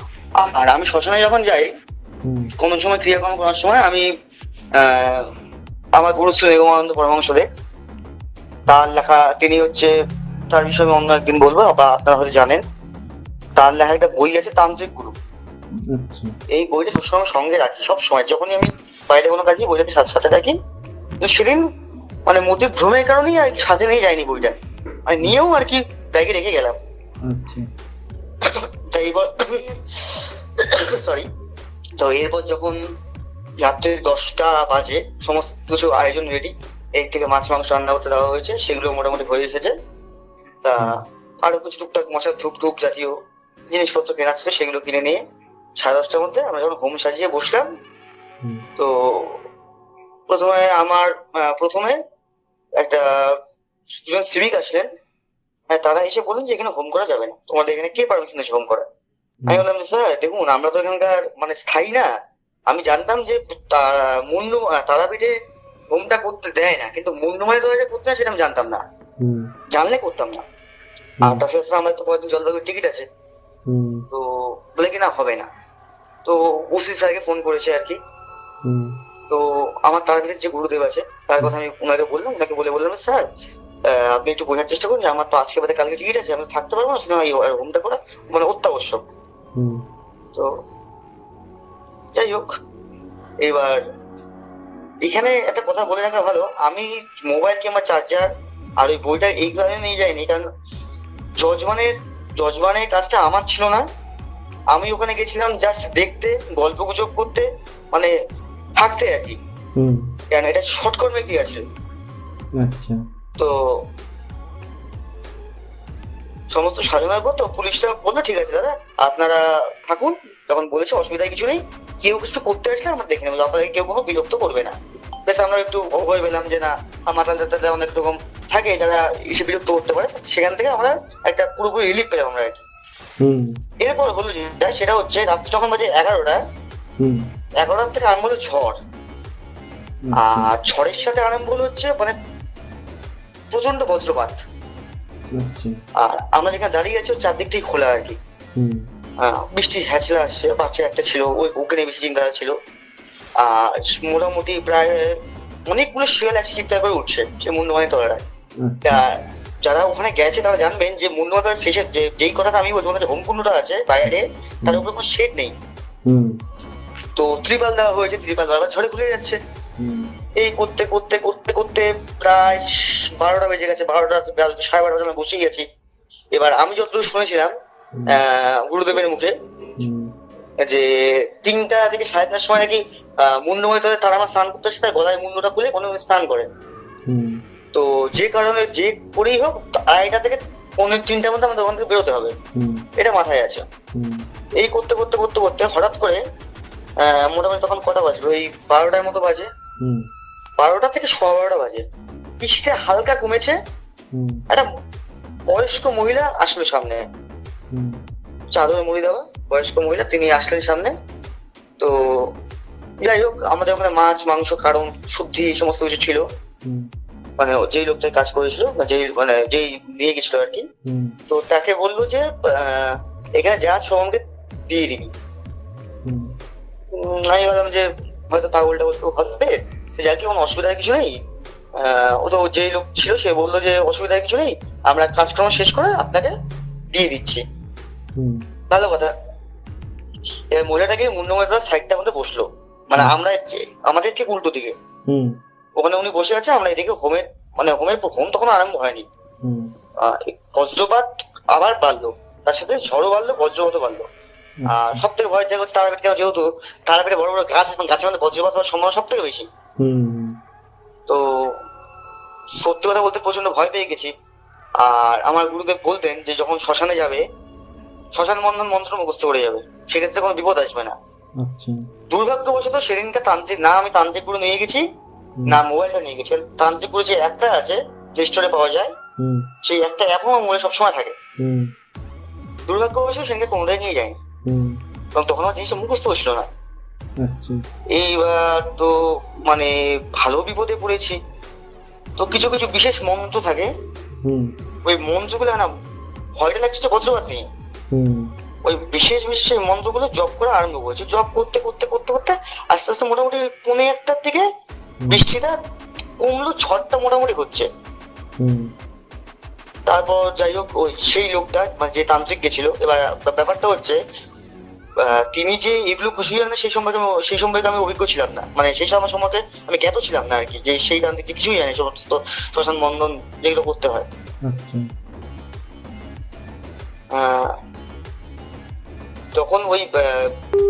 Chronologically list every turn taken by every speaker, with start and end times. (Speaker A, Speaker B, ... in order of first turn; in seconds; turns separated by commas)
Speaker A: 0.4-1.7, Speaker B: 2.2-2.5, Speaker A: 2.6-4.0, Speaker A: 4.8-5.2, Speaker A: 6.0-7.4, Speaker A: 8.7-9.9, Speaker A: 10.5-12.6, Speaker A: 13.6-15.1, Speaker B: 15.9-16.3, Speaker A: 16.5-20.6, Speaker A: 21.2-21.6, Speaker A: 22.3-24.6, Speaker A: 25.1-26.7, Speaker B: 27.3-27.7, Speaker A: 28.9-31.3, Speaker A: 32.0-32.8, Speaker A: 33.6-39.7, Speaker A: 40.6-43.1, Speaker A: 43.7-45.2, Speaker A: 45.8-47.7, Speaker A: 48.8-49.3, Speaker A: 50.3-52.0, Speaker A: 52.8-53.4, Speaker A: 54.0-54.9, Speaker A: 55.7-58.8, Speaker A: 59.5-62.1, Speaker A: 62.7-65.3, Speaker A: 65.9-68.8, Speaker B: 69.2-69.5, Speaker A: 69.7-70.4, Speaker A: 71.2-73.0, Speaker B: 73.7-74.1, Speaker A: 74.1-75.5, Speaker A: 76.2-78.0, Speaker B: 78.7-78.9, Speaker A: 79.3-83.2, Speaker A: 83.9-89.0, Speaker B: 89.6-89.8, Speaker A: 92.2-92.5, Speaker A: 93.4-93.8, Speaker A: 95.0-100.4, Speaker A: 101.4-103.8, Speaker A: 104.7-108.1, Speaker A: 108.8-109.4, Speaker B: 109.8-110.1, Speaker A: 110.3-111.6, Speaker B: 112.6-113.0, Speaker A: 116.5-124.7, Speaker A: 125.3-132.6, Speaker B: 133.2-133.5, Speaker A: 133.8-136.4, Speaker B: 137.0-137.2, Speaker A: 137.6-138.8, Speaker B: 140.0-140.5, Speaker A: 140.2-142.2, Speaker A: 143.5-144.4, Speaker B: 145.3-145.7, Speaker A: 146.0-148.2, Speaker B: 148.6-148.9, Speaker A: 149.2-152.5, Speaker A: 153.4-155.1, Speaker A: 155.7-158.2, Speaker B: 158.6-159.0, Speaker A: 158.8-165.5, Speaker B: 166.1-166.3, Speaker A: 167.2-169.4, Speaker B: 169.8-170.1, Speaker A: 170.4-175.7, Speaker A: 176.3-177.5, Speaker B: 177.9-178.2, Speaker A: 178.1-179.3, Speaker B: 179.8-180.1, Speaker A: 180.7-186.5, Speaker B: 187.1-187.4, Speaker A: 187.7-192.3, Speaker B: 192.6-192.8, Speaker A: 193.0-193.7, Speaker B: 193.9-194.3, Speaker A: 194.6-196.2, Speaker A: 197.0-199.5, Speaker A: 200.6-201.8, Speaker A: 202.4-203.6, Speaker B: 204.1-204.4, Speaker A: 205.5-207.0, Speaker B: 207.7-208.0, Speaker A: 208.5-210.9, Speaker A: 211.8-212.2, Speaker A: 213.0-216.2, Speaker B: 216.7-216.9, Speaker A: 217.4-220.6, Speaker B: 220.8-221.2, Speaker A: 221.3-225.1, Speaker B: 226.1-226.3, Speaker A: 226.9-231.1, Speaker A: 231.8-236.3, Speaker A: 236.9-237.4, Speaker B: 238.2-238.4, Speaker A: 238.7-239.1, Speaker A: 240.5-244.7, Speaker B: 245.1-245.3, Speaker A: 245.8-249.1, Speaker B: 249.4-249.7, Speaker A: 250.0-254.1, Speaker B: 254.6-255.0, Speaker A: 254.7-259.4, Speaker B: 259.8-260.4, Speaker A: 262.6-264.1, Speaker A: 264.8-267.2, Speaker A: 268.1-270.9, Speaker B: 271.4-271.7, Speaker A: 272.1-274.8, Speaker A: 275.5-278.9, Speaker B: 279.2-279.4, Speaker A: 279.6-281.1, Speaker B: 281.4-281.7, Speaker A: 282.7-284.2, Speaker B: 284.4-284.8, Speaker A: 285.2-286.5, Speaker B: 287.2-287.6, Speaker A: 287.9-291.2, Speaker A: 292.2-293.7, Speaker B: 294.2-294.5, Speaker A: 294.9-295.7, Speaker A: 296.4-297.4, Speaker B: 297.9-298.3, Speaker A: 298.7-304.4, Speaker A: 305.1-305.5, Speaker A: 306.2-307.7, Speaker B: 308.4-308.7, Speaker A: 309.9-314.0, Speaker A: 315.0-324.1, Speaker B: 324.5-324.8, Speaker A: 327.1-327.5, Speaker A: 329.3-330.3